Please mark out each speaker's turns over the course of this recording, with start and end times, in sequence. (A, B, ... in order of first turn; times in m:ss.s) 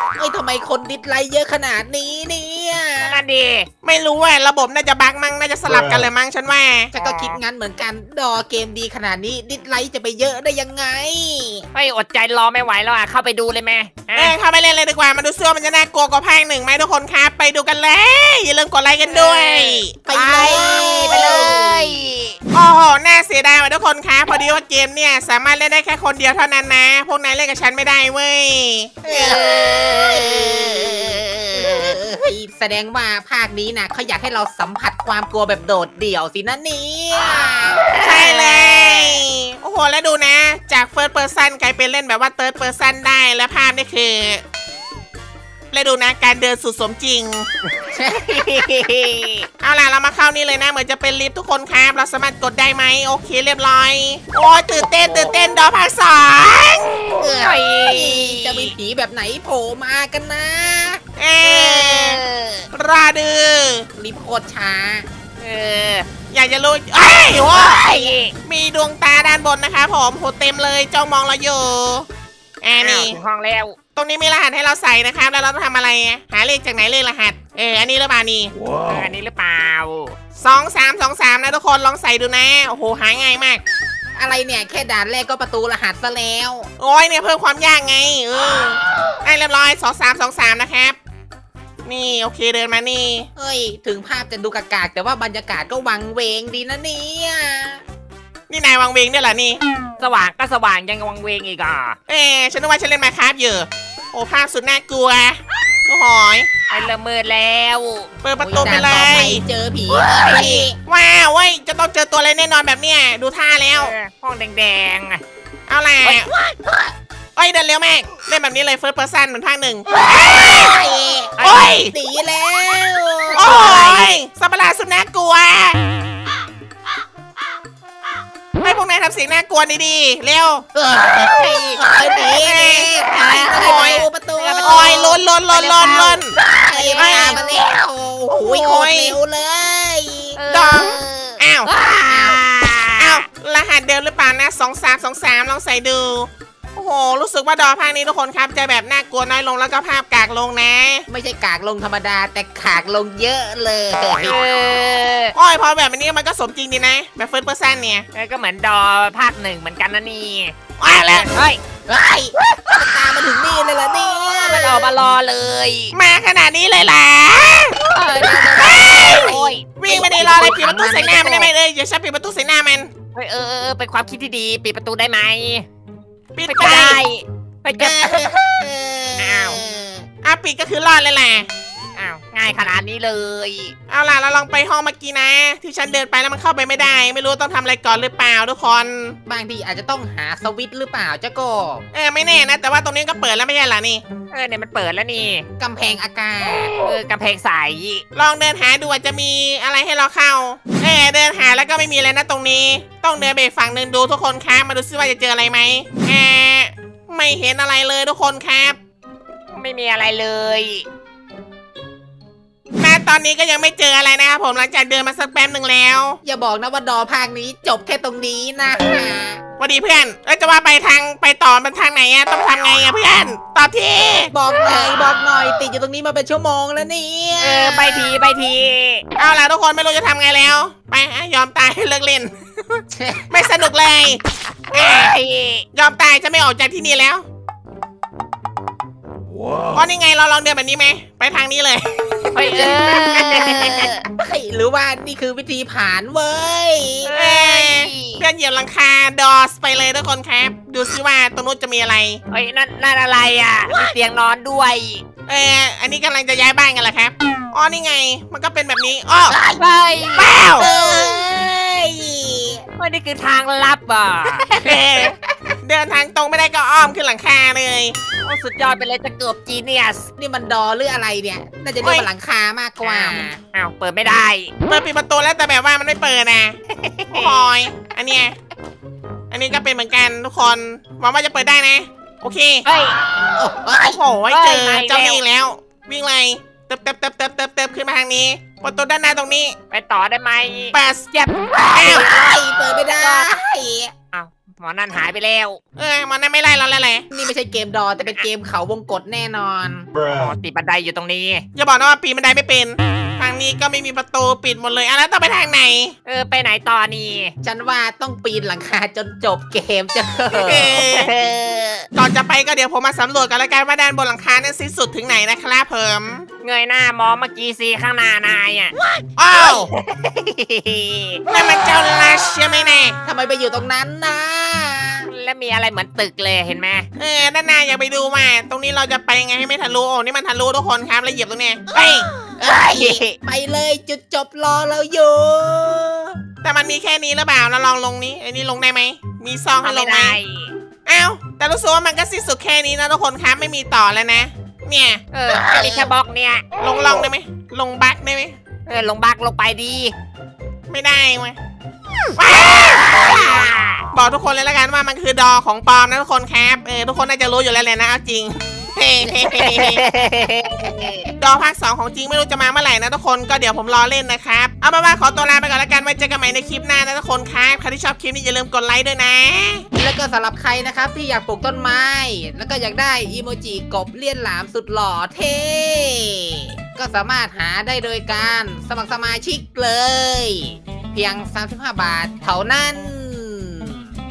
0:00.1-0:03.2 A
0:03.0-0:03.7 B
0:03.8-0:06.9 C
0:06.9-0:11.7 A
0:07.0-0:07.4 B
0:11.7-0:14.4 B
0:14.1-0:20.0 C
0:19.1-0:22.4 B
0:20.1-0:22.1 A
0:22.5-0:29.0 C
0:29.0-0:38.3 A
0:29.1-0:32.0 B
0:37.9-0:39.1 B
0:38.0-0:44.4 C
0:45.7-0:47.5 C
0:47.9-0:48.4 A
0:48.2-0:49.5 B
0:49.6-0:57.2 C
0:57.2-1:01.0 A
0:57.3-0:58.7 B
1:01.2-1:02.2 C
1:01.4-1:02.7 B
1:02.7-1:03.9 C
1:04.0-1:05.1 A
1:05.4-1:06.1 B
1:06.3-1:07.8 C
1:07.3-1:08.3 B
1:08.4-1:12.1 C
1:12.6-1:13.2 C
1:12.7-1:13.8 B
1:14.0-1:18.5 C
1:18.8-1:20.2 B
1:20.4-1:23.6 C
1:24.2-1:26.7 A
1:26.8-1:31.0 C
1:31.8-1:33.3 C
1:33.4-1:37.8 A
1:38.5-1:39.6 C
1:40.0-1:42.0 B
1:42.1-1:46.5 C
1:46.7-1:48.1 B
1:48.2-1:49.4 C
1:48.4-1:50.8 A
1:49.9-1:50.7 B
1:50.8-1:53.9 C
1:53.8-1:55.2 B
1:55.7-1:56.3 C
1:56.0-1:56.3 B
1:56.4-1:56.9 A
1:57.4-2:00.8 C
1:59.9-2:03.9 A
2:01.4-2:01.8 B
2:01.4-2:01.9 C
2:03.3-2:04.2 B
2:03.4-2:05.8 C
2:08.6-2:10.6 C
2:10.8-2:15.1 A
2:11.2-2:11.9 B
2:12.3-2:12.9 C
2:13.1-2:17.6 B
2:13.6-2:14.0 C
2:14.6-2:16.4 C
2:16.4-2:20.4 A
2:17.0-2:17.4 C
2:18.4-2:19.2 C
2:20.4-2:23.2 B
2:20.5-2:21.7 C
2:22.0-2:22.4 A
2:23.0-2:31.1 C
2:31.1-2:34.4 A
2:34.2-2:35.3 B
2:35.4-2:38.1 C
2:38.1-2:40.6 B
2:40.8-2:41.3 C
2:41.1-2:41.6 B
2:41.9-2:45.0 A
2:44.5-2:46.0 B
2:45.9-2:47.8 C
2:47.8-2:51.5 A
2:47.9-2:50.6 B
2:48.6-2:52.9 C
2:53.2-2:55.7 B
2:56.4-2:57.0 C
2:56.5-2:58.2 B
2:57.8-3:00.1 A
2:59.2-2:59.6 B
3:00.2-3:01.5 C
3:02.0-3:03.7 B
3:03.9-3:09.2 C
3:09.3-3:11.8 A
3:11.9-3:14.0 C
3:14.3-3:15.4 B
3:15.6-3:16.8 A
3:16.8-3:18.0 B
3:18.2-3:28.8 C
3:29.5-3:30.8 B
3:32.8-3:36.2 C
3:36.2-3:39.4 A
3:39.6-3:44.3 C
3:44.3-3:48.2 A
3:47.4-3:49.0 B
3:49.2-3:55.2 C
3:52.9-3:53.5 A
3:54.7-3:55.6 B
3:55.7-3:57.2 C
3:59.7-4:03.6 C
4:02.3-4:04.0 B
4:02.6-4:07.2 A
4:07.0-4:08.2 B
4:07.1-4:12.2 C
4:12.3-4:15.0 B
4:15.3-4:19.4 C
4:19.3-4:19.7 A
4:19.6-4:20.3 B
4:20.2-4:20.7 C
4:20.4-4:22.6 A
4:22.8-4:24.8 B
4:24.6-4:25.1 A
4:24.6-4:28.0 C
4:28.2-4:30.1 B
4:30.2-4:33.4 A
4:31.8-4:32.1 C
4:32.8-4:34.5 B
4:34.7-4:36.6 C
4:36.7-4:37.5 B
4:37.1-4:38.4 C
4:39.3-4:42.7 C
4:42.6-4:43.0 B
4:43.4-4:44.0 A
4:43.8-4:49.6 C
4:44.3-4:45.2 B
4:49.7-4:52.4 B
4:50.7-4:51.1 C
4:51.6-4:53.9 A
4:51.7-4:52.1 C
4:52.9-4:53.3 B
4:54.1-4:55.6 B
4:55.8-4:57.0 C
4:57.1-4:59.9 A
5:00.1-5:01.4 B
5:01.6-5:05.9 C
5:06.1-5:07.3 B
5:07.4-5:10.9 A
5:10.3-5:11.1 C
5:10.7-5:11.9 B
5:12.0-5:16.3 C
5:16.4-5:18.8 B
5:19.2-5:19.7 C
5:19.4-5:21.2 B
5:21.3-5:23.0 C
5:23.0-5:25.1 A
5:25.1-5:26.9 B
5:27.0-5:32.1 C
5:31.7-5:36.2 A
5:32.4-5:33.2 B
5:36.4-5:40.2 C
5:39.6-5:40.5 B
5:40.9-5:45.0 C
5:45.1-5:46.4 B
5:45.3-5:45.8 A
5:46.6-5:48.4 C
5:48.7-5:49.9 B
5:50.7-5:51.4 C
5:52.2-5:53.4 C
5:52.7-5:53.8 B
5:53.9-5:59.8 C
5:59.2-6:01.1 B
6:00.6-6:00.9 A
6:01.2-6:09.6 C
6:09.8-6:23.9 A